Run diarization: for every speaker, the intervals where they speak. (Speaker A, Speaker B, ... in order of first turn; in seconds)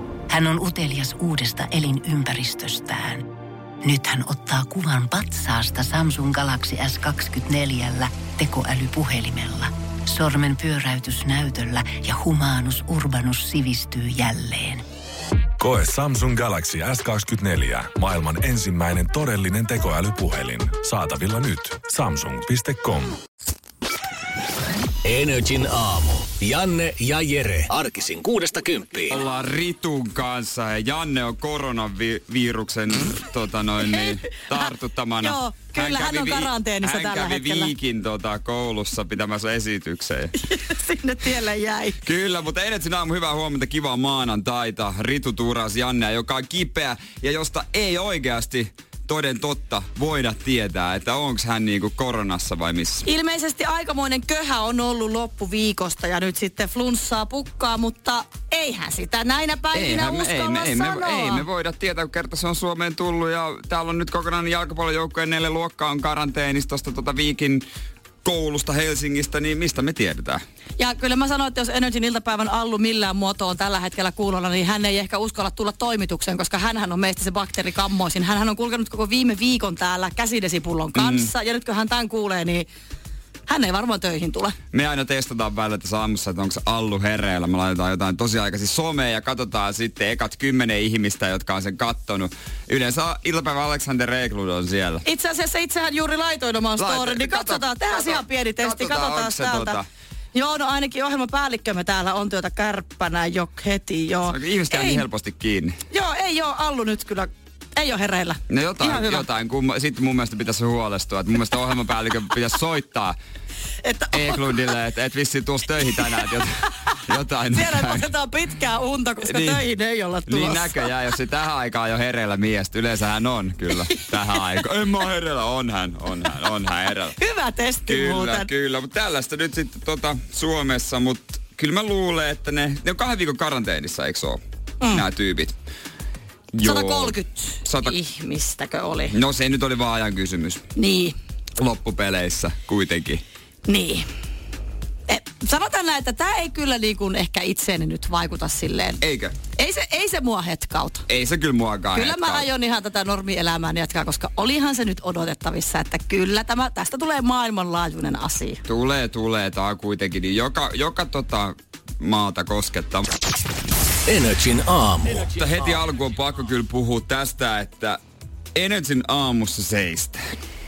Speaker A: 0.3-3.3, 3.8-14.8
Speaker B: 15.6-23.2
Speaker C: 25.0-29.2, 164.1-165.5
Speaker D: 29.1-40.3, 42.0-53.1, 59.7-67.6, 68.2-70.4, 80.9-81.3, 84.7-95.0, 96.8-99.8, 104.2-105.8, 108.5-113.2, 114.1-118.1, 119.2-119.6, 120.2-127.2, 127.8-135.6, 136.5-138.0, 139.1-140.7, 141.6-143.2, 149.0-149.4, 151.1-152.5, 158.7-163.1, 165.4-168.0, 168.5-170.3
Speaker E: 35.2-37.7, 40.5-42.0, 53.0-61.4, 70.8-82.7, 83.5-84.5, 95.0-99.8, 100.3-105.0, 105.9-109.2, 113.8-114.6, 117.5-120.9, 127.2-128.5, 136.6-139.2, 140.8-141.1, 143.7-144.1, 145.1-149.0, 149.5-151.0, 151.9-158.6